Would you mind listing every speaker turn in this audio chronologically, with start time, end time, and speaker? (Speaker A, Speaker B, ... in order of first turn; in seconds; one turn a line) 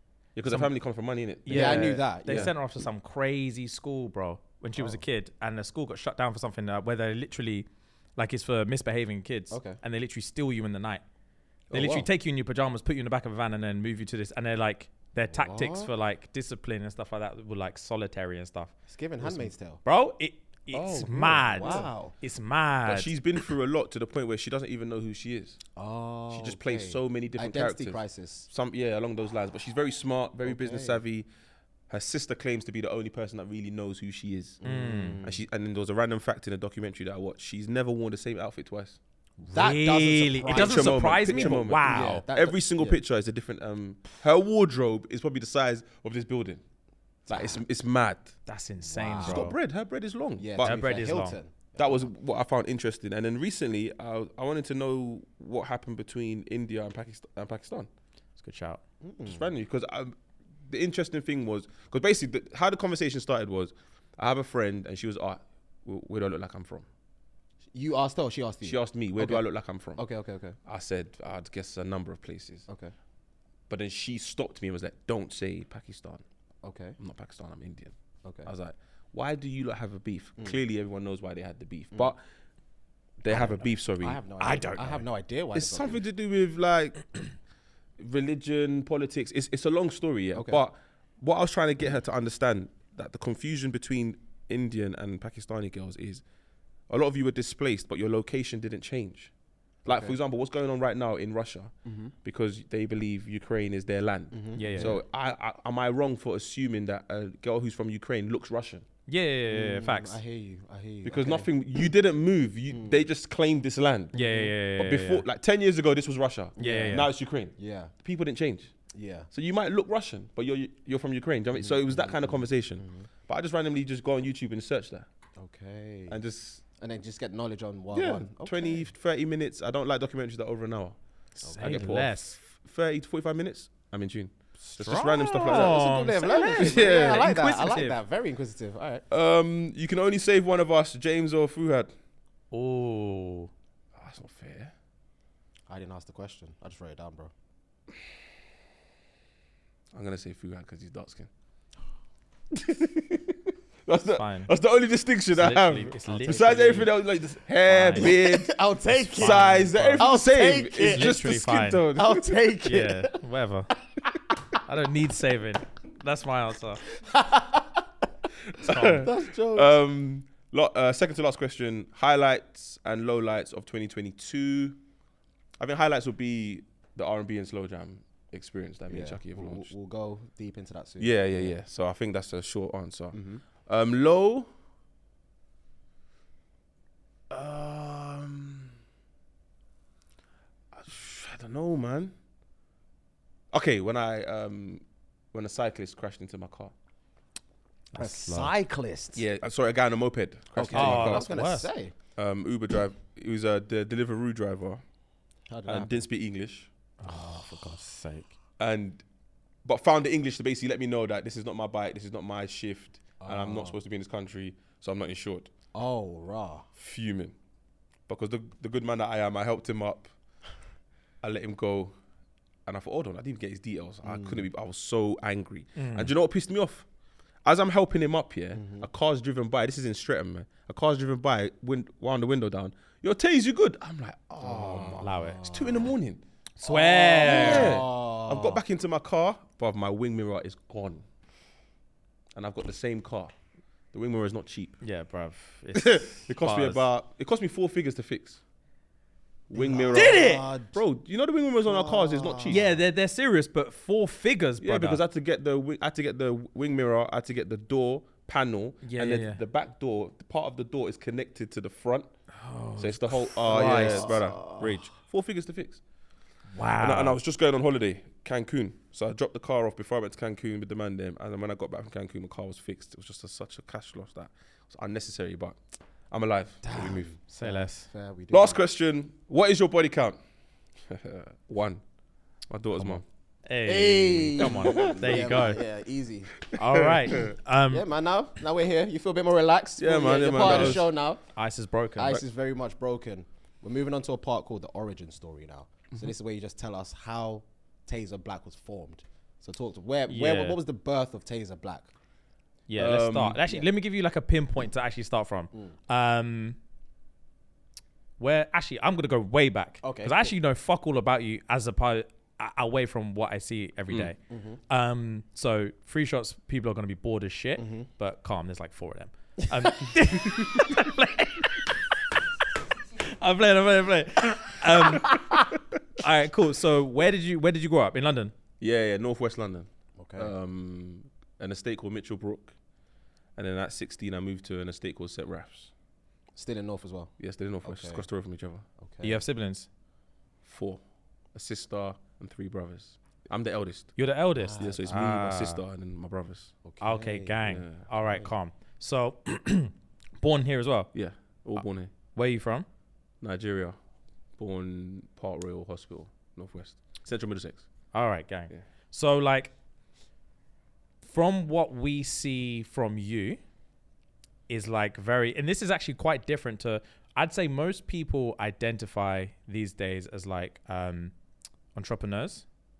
Speaker A: 0.3-2.5
Speaker B: 1.4-11.0
Speaker C: 1.5-2.5
Speaker C: 9.5-9.8
Speaker A: 11.7-12.1
Speaker B: 11.7-18.7
Speaker C: 15.3-15.9
Speaker C: 18.9-19.8
Speaker B: 19.8-23.1
Speaker A: 20.7-21.9
Speaker C: 21.4-22.1
Speaker A: 22.9-25.6
Speaker C: 25.8-28.5
Speaker A: 26.3-31.2
Speaker C: 30.4-31.0
Speaker A: 31.9-34.6
Speaker C: 34.6-35.4
Speaker B: 34.6-35.2
Speaker A: 35.2-39.0
Speaker C: 39.4-43.0
Speaker B: 39.5-42.2
Speaker A: 40.4-46.6
Speaker C: 47.3-47.6
Speaker A: 47.3-48.3
Speaker B: 48.5-49.5
Speaker C: 48.9-49.5
Speaker A: 49.2-50.8
Speaker C: 50.4-52.1
Speaker B: 50.6-51.4
Speaker A: 51.8-57.9
Speaker B: 58.4-58.8
Speaker C: 59.0-59.5
Speaker A: 59.2-60.1
Speaker A: 60.7-66.8
Speaker C: 67.7-69.4
Speaker A: 68.6-70.0
Speaker C: 70.0-70.5
Speaker A: 70.7-72.7
Speaker C: 72.7-72.9
Speaker A: 73.7-76.2
Speaker C: 76.6-77.0
Speaker A: 77.0-77.9
Speaker A: 78.4-82.2
Speaker A: 83.2-84.2
Speaker C: 83.3-86.0
Speaker B: 84.4-85.0
Speaker A: 85.5-87.3
Speaker A: 88.0-96.2
Speaker C: 90.3-90.6
Speaker A: 96.9-99.3
Speaker A: 99.8-101.7
Speaker C: 99.8-100.2
Speaker C: 101.8-102.1
Speaker A: 102.2-108.8
Speaker C: 104.3-105.0
Speaker B: 104.5-105.0
Speaker B: 109.1-110.2
Speaker C: 109.5-111.5
Speaker A: 111.0-114.2
Speaker C: 112.7-113.0
Speaker B: 114.1-115.2
Speaker C: 114.2-114.5
Speaker A: 114.8-118.7
Speaker C: 116.6-117.9
Speaker B: 116.6-117.1
Speaker C: 118.9-119.3
Speaker A: 119.3-125.0
Speaker C: 121.5-123.1
Speaker C: 125.4-126.2
Speaker A: 126.1-126.6
Speaker C: 126.8-128.8
Speaker A: 127.9-131.0
Speaker B: 131.4-132.4
Speaker C: 131.4-131.9
Speaker A: 131.5-135.8
Speaker B: 134.7-138.0
Speaker C: 135.4-139.0
Speaker A: 136.5-137.3
Speaker A: 139.1-141.9
Speaker B: 142.5-143.5
Speaker A: 143.9-144.7
Speaker C: 145.7-147.3
Speaker A: 149.9-151.3
Speaker A: 152.5-158.6
Speaker B: 154.1-154.5
Speaker B: 155.3-156.9
Speaker C: 156.1-156.8
Speaker B: 157.7-158.1
Speaker C: 157.8-161.2
Speaker A: 159.1-162.3
Speaker B: 159.2-160.1
Speaker B: 160.8-161.8
Speaker C: 161.9-163.2
Speaker B: 162.6-163.7
Speaker B: 164.6-166.8
Speaker C: 166.9-167.8
Speaker A: 168.5-174.8
Speaker B: 168.6-169.1
Speaker C: 168.7-169.8
Speaker A: 175.6-179.7
Speaker C: 178.9-181.6
Speaker A: 181.0-184.5
Speaker C: 183.1-183.4
Speaker A: 187.3-188.7
Speaker A: 190.7-192.1
Speaker A: 193.5-194.8
Speaker A: 195.3-196.7
Speaker B: 197.9-198.5
Speaker C: 198.0-199.2
Speaker A: 199.2-201.4
Speaker C: 200.5-201.9
Speaker B: 200.7-201.7
Speaker A: 202.2-204.8
Speaker C: 205.5-205.9
Speaker A: 205.7-206.7
Speaker B: 207.0-208.3
Speaker C: 207.1-207.6
Speaker A: 208.6-209.0
Speaker A: 209.6-215.5
Speaker C: 213.2-213.8
Speaker C: 215.7-216.7
Speaker A: 216.8-217.3
Speaker A: 218.1-220.1
Speaker A: 221.2-221.9
Speaker A: 222.7-226.8
Speaker C: 224.0-224.4
Speaker B: 225.8-226.1
Speaker A: 227.4-236.2
Speaker C: 228.5-228.9
Speaker C: 234.4-235.9
Speaker B: 235.0-235.5
Speaker B: 236.6-237.8
Speaker C: 236.6-238.6
Speaker A: 237.2-241.0
Speaker A: 242.3-243.3
Speaker A: 243.9-244.8
Speaker B: 244.8-246.8
Speaker A: 245.7-248.4
Speaker A: 249.5-252.7
Speaker C: 249.5-250.8
Speaker B: 249.9-250.4
Speaker C: 251.6-252.6
Speaker B: 252.5-255.0
Speaker A: 254.6-262.1
Speaker B: 258.8-259.4
Speaker B: 262.3-264.2
Speaker A: 262.8-265.8
Speaker C: 263.5-264.8
Speaker B: 266.5-267.2
Speaker A: 266.8-275.6
Speaker A: 276.1-277.1
Speaker C: 276.6-278.6
Speaker B: 277.3-277.9
Speaker A: 278.3-280.2
Speaker A: 280.9-281.8
Speaker A: 282.5-283.0
Speaker B: 283.5-285.6
Speaker C: 283.6-286.3
Speaker A: 284.4-285.5
Speaker A: 286.5-287.2
Speaker B: 286.5-287.9
Speaker C: 287.7-291.2
Speaker A: 289.8-290.9
Speaker B: 290.4-290.8
Speaker B: 291.3-292.2
Speaker C: 291.9-301.9
Speaker B: 300.1-300.6
Speaker B: 302.7-306.6
Speaker A: 302.8-303.4
Speaker B: 308.2-314.2
Speaker C: 309.8-310.3
Speaker C: 314.3-314.6
Speaker B: 314.7-321.7
Speaker C: 317.6-317.9
Speaker C: 319.6-319.9
Speaker B: 323.0-325.4
Speaker B: 325.9-328.3
Speaker A: 328.6-332.5
Speaker C: 330.0-330.3
Speaker A: 333.4-335.7
Speaker C: 336.3-337.1
Speaker A: 337.2-338.6
Speaker C: 337.6-338.0
Speaker C: 338.8-339.2
Speaker B: 339.0-339.7
Speaker A: 340.4-340.8
Speaker A: 341.3-343.9
Speaker B: 343.9-345.6
Speaker C: 344.4-345.0
Speaker A: 344.6-346.5
Speaker C: 346.6-347.4
Speaker B: 346.8-350.9
Speaker A: 347.4-347.9
Speaker C: 348.0-348.3
Speaker A: 350.9-351.9
Speaker B: 352.1-352.7
Speaker A: 353.2-353.8
Speaker A: 354.4-357.7
Speaker B: 357.9-359.5
Speaker B: 361.0-363.4
Speaker B: 364.5-371.1
Speaker B: 371.7-372.4